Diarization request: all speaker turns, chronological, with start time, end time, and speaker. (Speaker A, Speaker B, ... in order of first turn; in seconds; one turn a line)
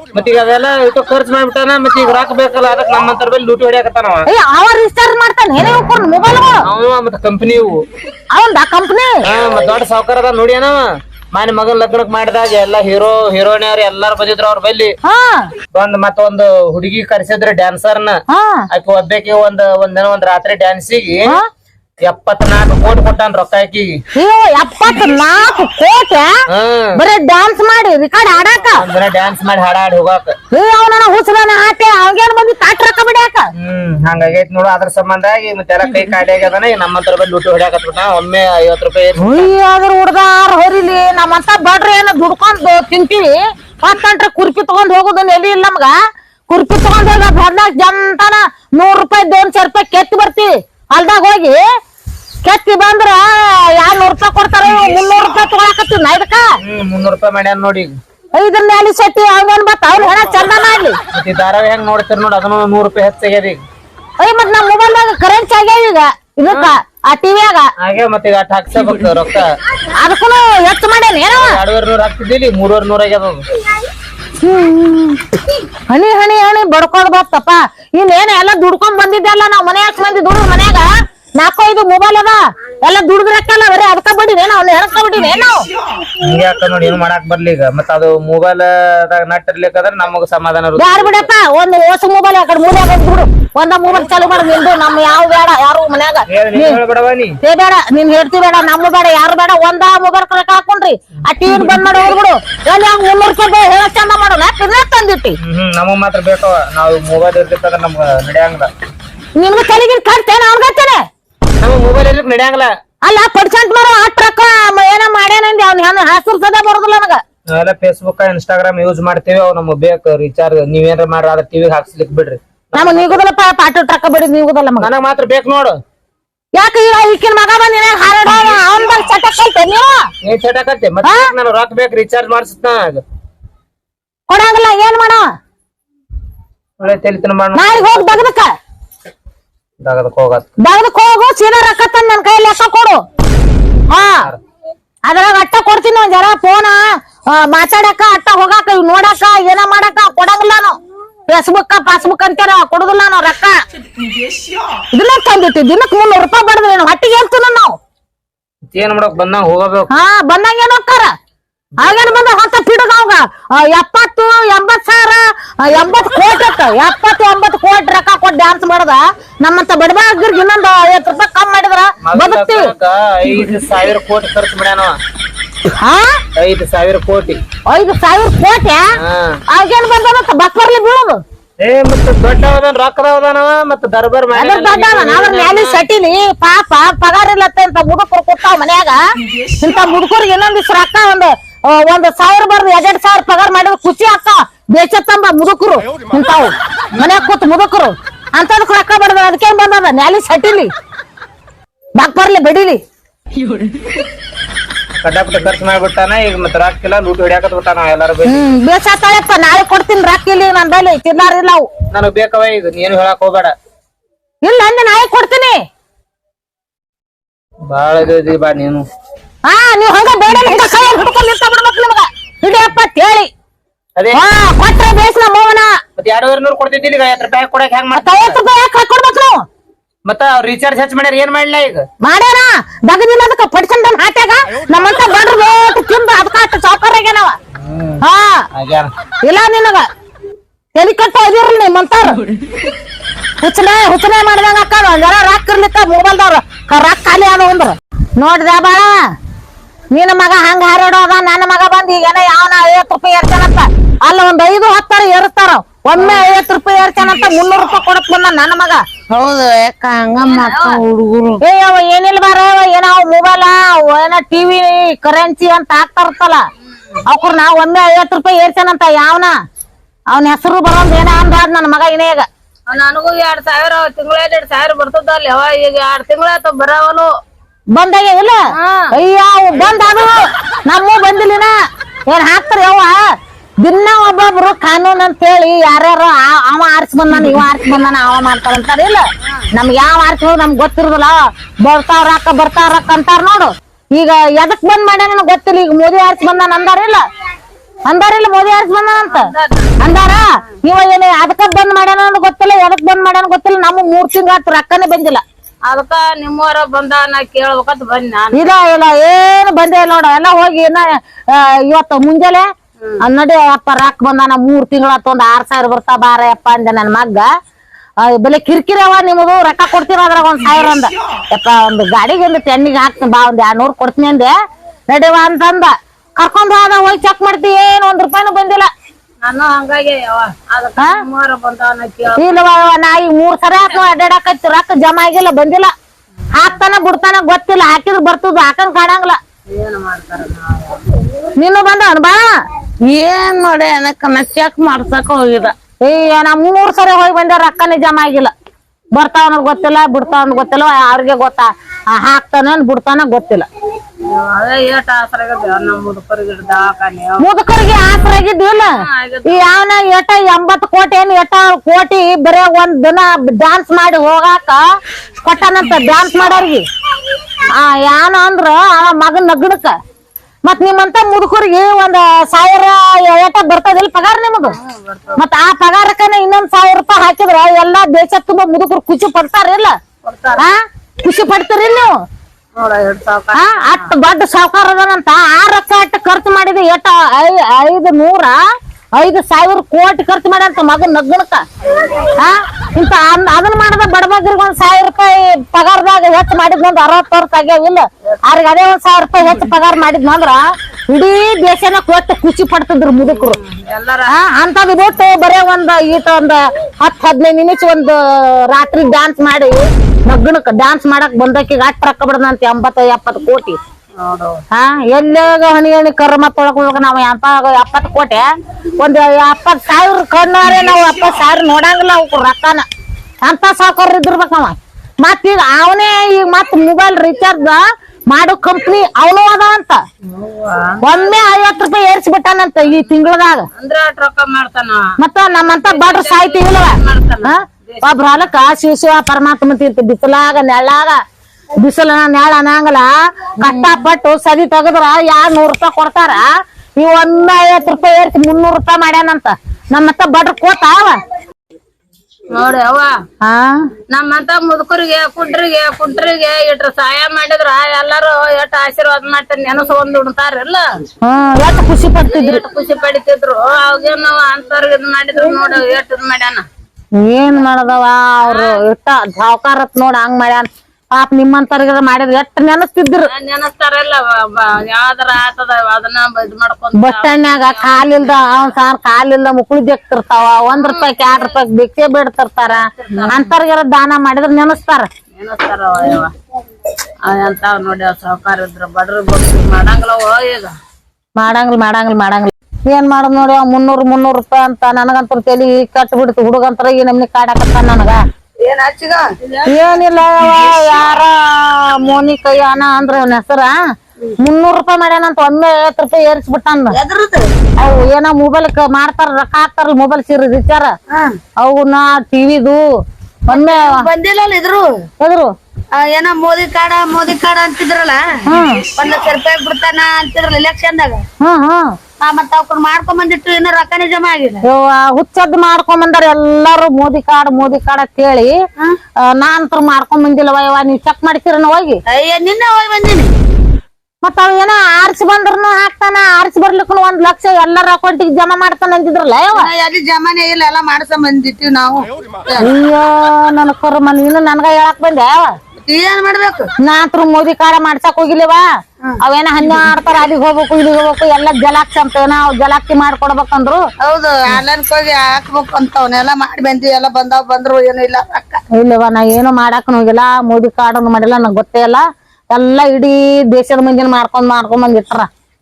Speaker A: 0.1-4.2
Speaker B: 4.3-6.6
Speaker A: 6.7-7.8
Speaker B: 8.3-9.2
Speaker A: 9.2-14.9
Speaker B: 15.0-15.5
Speaker A: 15.7-18.2
Speaker B: 18.3-18.6
Speaker A: 18.7-21.2
Speaker A: 22.0-24.0
Speaker B: 24.1-26.3
Speaker A: 26.5-26.9
Speaker B: 26.9-28.8
Speaker A: 28.8-30.4
Speaker B: 30.5-33.5
Speaker A: 33.5-39.5
Speaker B: 39.2-45.9
Speaker B: 46.5-51.6
Speaker B: 52.4-56.4
Speaker A: 56.6-57.9
Speaker B: 58.3-61.0
Speaker A: 61.1-63.6
Speaker B: 64.2-67.7
Speaker A: 67.8-69.5
Speaker B: 69.9-71.5
Speaker A: 71.3-73.4
Speaker B: 74.4-75.2
Speaker B: 75.9-85.6
Speaker A: 86.2-91.3
Speaker B: 90.8-96.8
Speaker A: 96.3-97.4
Speaker B: 97.4-105.3
Speaker A: 101.6-101.8
Speaker A: 105.4-108.7
Speaker B: 109.4-111.0
Speaker A: 111.6-112.7
Speaker B: 113.0-117.2
Speaker A: 117.5-123.2
Speaker B: 122.7-124.9
Speaker A: 124.8-125.8
Speaker B: 126.5-129.9
Speaker A: 130.2-133.0
Speaker B: 134.3-135.2
Speaker A: 136.8-138.3
Speaker B: 137.5-138.4
Speaker A: 139.8-140.5
Speaker B: 140.6-143.0
Speaker B: 143.9-144.3
Speaker B: 145.1-146.8
Speaker B: 147.3-153.6
Speaker B: 154.9-157.7
Speaker A: 158.7-159.9
Speaker B: 159.9-161.1
Speaker B: 161.8-172.7
Speaker A: 172.0-175.0
Speaker B: 175.7-176.2
Speaker A: 176.3-177.4
Speaker B: 177.7-178.9
Speaker A: 179.0-179.4
Speaker B: 179.5-181.2
Speaker A: 181.6-185.8
Speaker B: 184.3-189.0
Speaker B: 189.6-200.7
Speaker B: 202.0-202.8
Speaker A: 205.0-208.4
Speaker B: 208.3-211.7
Speaker A: 211.9-213.5
Speaker B: 214.4-215.6
Speaker A: 217.7-218.8
Speaker B: 219.4-223.3
Speaker B: 224.1-225.7
Speaker A: 226.0-228.4
Speaker B: 227.9-229.4
Speaker A: 230.1-231.8
Speaker B: 232.0-237.4
Speaker A: 237.5-238.0
Speaker B: 238.0-238.4
Speaker A: 238.5-238.9
Speaker B: 239.2-239.9
Speaker B: 240.7-242.2
Speaker B: 243.4-249.0
Speaker B: 249.9-258.8
Speaker C: 259.1-261.4
Speaker D: 260.2-260.8
Speaker B: 261.4-266.4
Speaker B: 267.1-269.3
Speaker B: 270.1-272.3
Speaker D: 272.7-277.1
Speaker B: 277.7-278.4
Speaker D: 278.6-278.9
Speaker B: 278.9-281.5
Speaker B: 282.1-283.0
Speaker B: 283.6-289.0
Speaker B: 289.6-297.0
Speaker B: 297.9-305.2
Speaker D: 299.1-300.2
Speaker D: 305.7-308.5
Speaker B: 308.3-312.4
Speaker B: 313.0-317.3
Speaker B: 318.0-324.3
Speaker B: 324.9-328.7
Speaker D: 329.2-332.4
Speaker B: 332.1-335.7
Speaker B: 336.3-339.2
Speaker D: 339.5-340.8
Speaker B: 341.4-342.2
Speaker C: 342.9-345.5
Speaker B: 345.8-348.3
Speaker B: 348.9-353.4
Speaker D: 354.1-357.2
Speaker B: 357.2-358.7
Speaker D: 358.7-359.5
Speaker B: 359.2-364.6
Speaker B: 365.2-366.6
Speaker D: 365.6-366.0
Speaker B: 367.5-369.7
Speaker B: 370.4-374.5
Speaker D: 374.6-375.2
Speaker B: 375.2-379.7
Speaker D: 380.0-380.4
Speaker B: 380.4-381.9
Speaker D: 382.6-383.9
Speaker B: 383.3-388.3
Speaker B: 388.9-391.4
Speaker B: 392.1-403.4
Speaker D: 403.2-404.1
Speaker B: 404.1-413.5
Speaker D: 414.0-414.4
Speaker B: 414.5-418.2
Speaker B: 418.8-422.6
Speaker B: 423.2-429.8
Speaker D: 430.1-431.2
Speaker B: 430.8-433.4
Speaker D: 433.5-438.3
Speaker B: 435.0-441.0
Speaker B: 441.6-446.3
Speaker B: 446.8-451.0
Speaker D: 452.3-452.9
Speaker B: 453.2-453.6
Speaker D: 453.9-460.6
Speaker B: 461.0-462.4
Speaker D: 462.1-466.4
Speaker B: 467.0-473.1
Speaker D: 468.2-468.6
Speaker D: 473.1-478.5
Speaker B: 476.7-484.9
Speaker D: 480.5-481.3
Speaker D: 482.4-483.3
Speaker D: 485.1-486.1
Speaker D: 487.1-490.5
Speaker B: 491.2-498.0
Speaker E: 498.4-499.1
Speaker B: 499.5-503.5
Speaker D: 500.2-500.7
Speaker B: 504.2-506.8
Speaker E: 506.7-507.2
Speaker B: 507.6-510.7
Speaker B: 511.4-512.6
Speaker E: 513.3-514.8
Speaker B: 513.3-513.9
Speaker B: 515.0-515.3
Speaker E: 515.7-518.0
Speaker B: 518.3-518.7
Speaker E: 518.8-521.0
Speaker B: 521.2-521.7
Speaker E: 522.0-524.4
Speaker B: 524.5-528.3
Speaker B: 529.1-531.8
Speaker E: 531.9-533.1
Speaker B: 534.0-539.5
Speaker E: 539.4-542.5
Speaker B: 542.4-545.3
Speaker E: 545.6-546.5
Speaker B: 546.6-548.4
Speaker B: 549.0-553.6
Speaker E: 553.8-558.4
Speaker B: 558.5-565.1